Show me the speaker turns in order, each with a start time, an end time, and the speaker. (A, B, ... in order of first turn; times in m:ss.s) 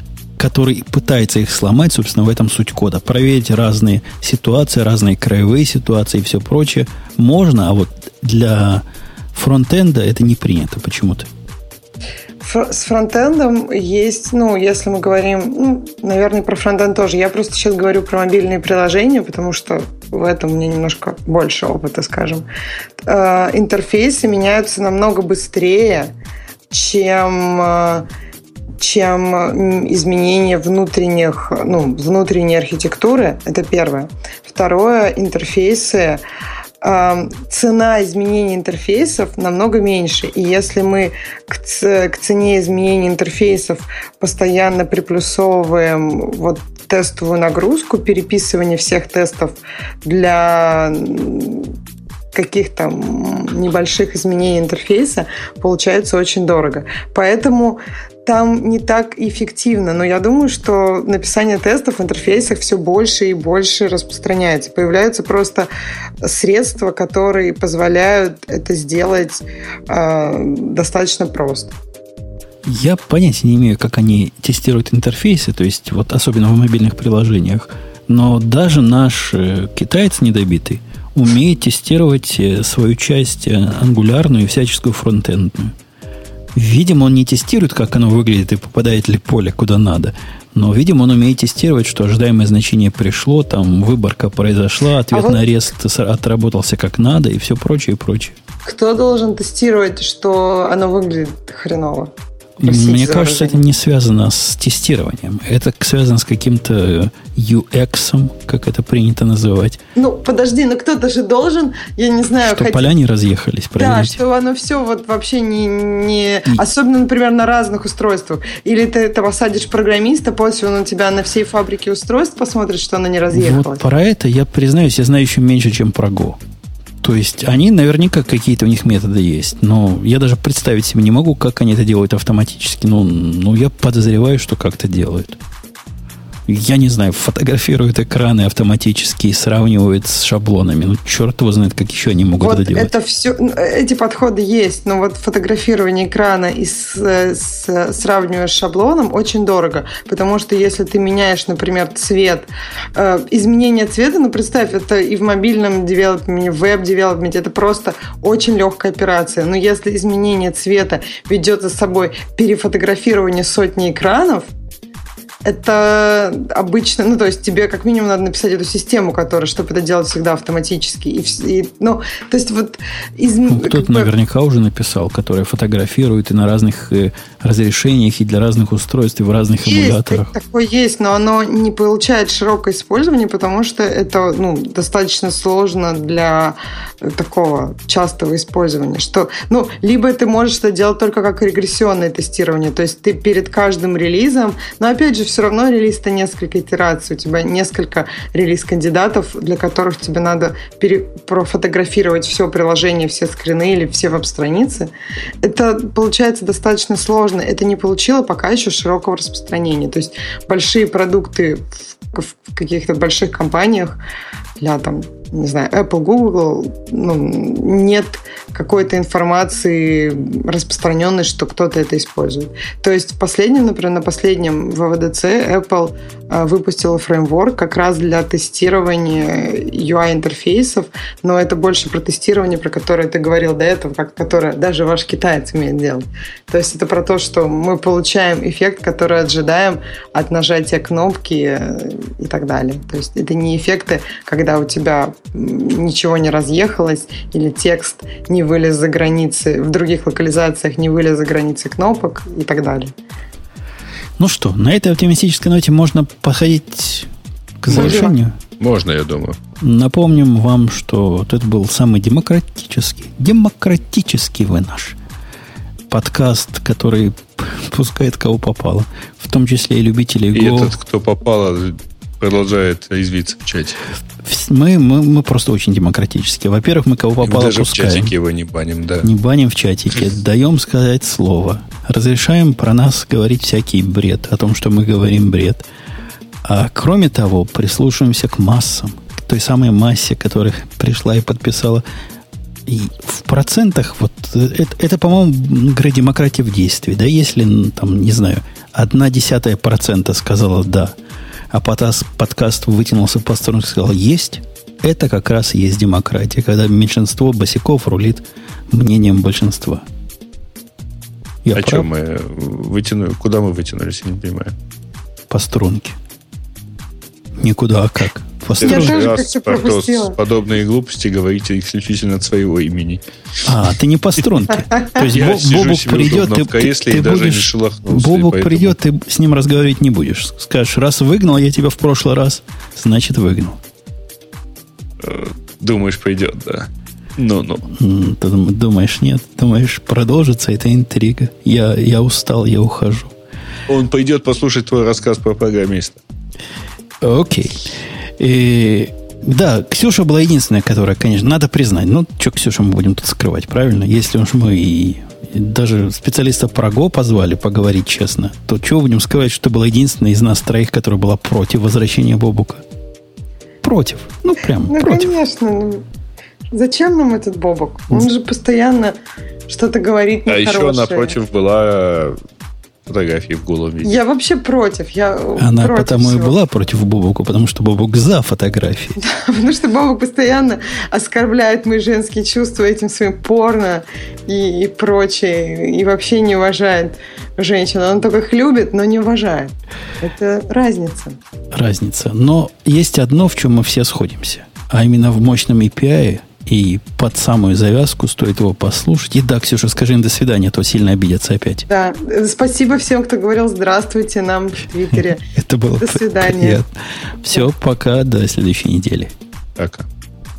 0:00.4-0:11.3 A
0:12.4-0:22.5 B
0:23.0-0:26.1 B
0:26.7-0:28.1 B
0:28.8-0:36.2 B
0:36.8-0:51.7 B
0:52.3-1:05.7 B
1:06.2-1:11.8 B
1:12.6-1:25.7 A
1:26.6-1:38.4 A
1:35.1-1:35.4 B
1:38.6-1:42.1 B
1:42.6-1:49.8 A
1:42.6-1:43.6 B
1:49.9-1:52.9 B
1:52.4-1:54.2 A
1:53.8-2:03.8 B
2:03.3-2:06.4 A
2:07.0-2:15.4 A
2:16.5-2:22.9 A
2:22.4-2:44.5 B
2:45.4-2:54.1 B
2:53.5-3:00.3 A
2:59.6-3:34.0 B
3:34.6-4:12.9 B
4:14.2-4:17.1 A
4:17.6-4:18.4 A
4:17.7-4:18.1 B
4:17.7-4:18.1 C
4:18.6-4:19.4 C
4:19.6-4:25.0 A
4:25.9-4:30.7 A
4:30.3-4:33.8 C
4:34.2-4:38.1 A
4:37.2-4:39.1 C
4:39.0-4:45.6 A
4:46.4-4:51.8 A
4:52.6-5:01.0 A
5:01.5-5:09.8 A
5:11.4-5:11.8 A
5:11.6-5:14.5 C
5:15.3-5:16.0 A
5:17.4-5:19.0 A
5:18.6-5:23.0 C
5:18.6-5:20.2 B
5:23.4-5:33.6 A
5:25.0-5:28.8 C
5:35.0-5:37.6 C
5:37.7-5:43.1 A
5:43.7-5:46.0 C
5:47.0-6:02.6 A
6:03.6-6:05.1 A
6:04.7-6:05.8 B
6:06.5-6:08.9 B
6:09.5-6:11.2 B
6:10.3-6:12.2 C
6:12.8-6:13.9 C
6:13.8-6:16.4 B
6:15.4-6:19.0 A
6:19.0-6:31.2 B
6:31.5-6:41.6 A
6:41.7-6:45.2 B
6:45.0-6:46.7 A
6:45.8-6:46.6 B
6:47.2-6:49.1 A
6:49.6-6:49.8 C